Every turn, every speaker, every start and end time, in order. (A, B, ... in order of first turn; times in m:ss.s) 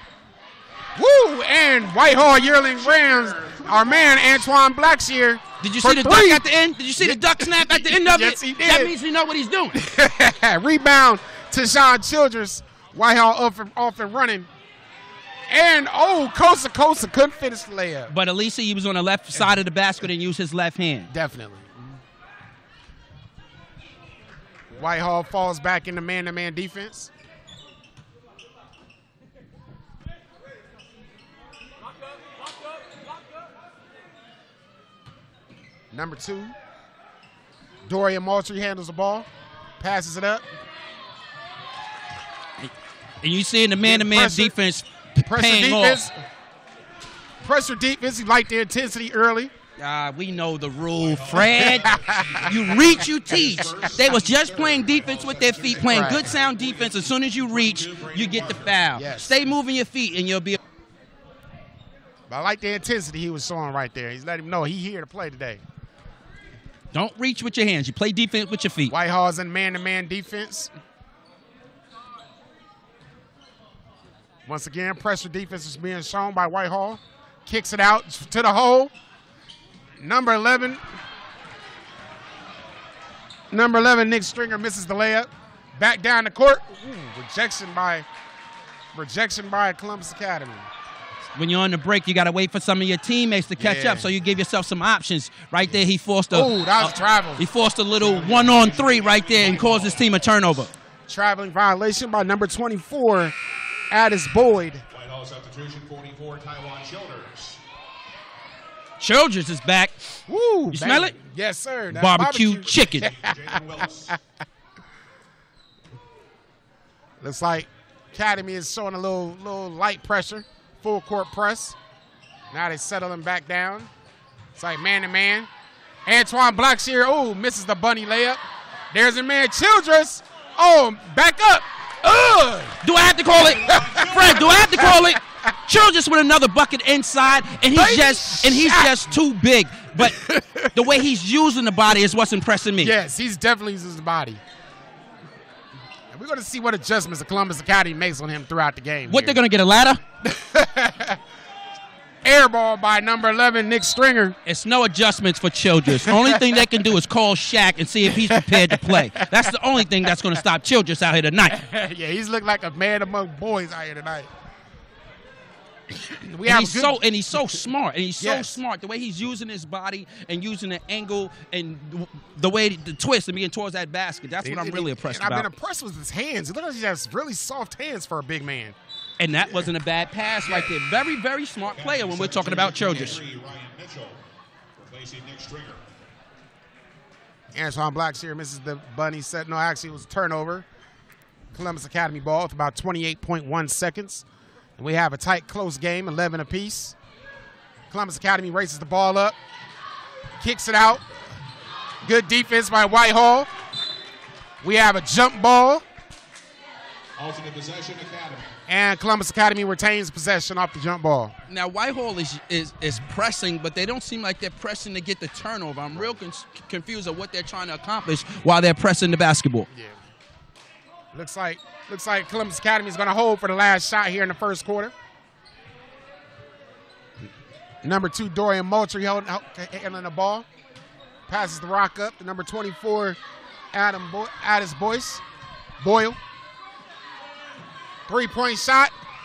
0:01.0-0:06.4 A
0:02.4-0:04.3 B
0:05.6-0:09.8 C
0:07.0-0:08.9 A
0:09.7-0:14.5 A
0:15.5-0:18.1 A
0:18.1-0:21.1 C
0:21.1-0:21.7 A
0:24.7-0:27.1 A
0:35.9-0:36.6 A
0:37.8-0:39.3 A
0:39.8-0:40.4 A
0:43.2-0:46.0 C
0:43.8-0:44.6 A
0:45.2-0:46.2 A
0:47.4-0:49.5 A
0:49.8-1:00.6 C
0:51.0-0:58.9 B
0:51.6-0:52.5 A
0:55.9-0:56.3 A
0:59.0-0:59.4 A
1:02.3-1:05.6 A
1:06.9-1:08.9 C
1:08.9-1:10.7 A
1:14.5-1:18.9 A
1:20.0-1:20.8 A
1:23.5-1:28.1 A
1:29.0-1:30.7 A
1:31.4-1:40.7 C
1:33.6-1:34.1 A
1:36.3-1:37.5 A
1:38.0-1:40.7 B
1:41.1-1:43.4 A
1:43.9-1:44.8 A
1:44.9-1:47.6 B
1:49.0-1:50.1 C
1:50.3-1:53.6 A
1:50.7-1:51.2 C
1:51.9-1:53.1 C
1:53.0-1:54.2 B
1:57.2-2:01.8 A
2:02.5-2:03.9 A
2:04.6-2:05.5 A
2:06.1-2:08.4 A
2:08.9-2:12.8 A
2:12.8-2:22.9 C
2:13.3-2:14.9 B
2:13.7-2:14.0 A
2:14.8-2:15.1 A
2:17.7-2:19.0 A
2:20.0-2:20.7 A
2:22.8-2:24.4 A
2:26.1-2:29.4 A
2:29.1-2:30.0 C
2:30.2-2:31.2 A
2:32.2-2:34.4 A
2:34.5-2:41.6 C
2:35.9-2:36.7 A
2:38.1-2:39.5 A
2:41.5-2:44.3 A
2:46.0-2:47.0 A
2:46.5-2:55.5 C
2:48.2-2:48.6 A
2:54.4-2:58.8 A
2:59.2-3:03.2 C
2:59.4-2:59.7 A
3:00.5-3:00.7 A
3:01.6-3:04.2 B
3:04.8-3:05.8 B
3:07.5-3:10.7 A
3:11.5-3:14.3 A
3:14.8-3:17.0 A
3:17.9-3:19.4 A
3:20.4-3:21.1 A
3:22.0-3:23.5 A
3:24.6-3:25.8 A
3:27.2-3:28.6 B
3:28.7-3:31.4 A
3:31.5-3:39.7 C
3:39.7-3:40.0 A
3:41.1-3:44.9 A
3:47.8-3:50.5 A
3:51.3-3:53.2 A
3:53.7-3:55.2 A
3:55.8-3:56.2 A
3:58.1-3:58.9 A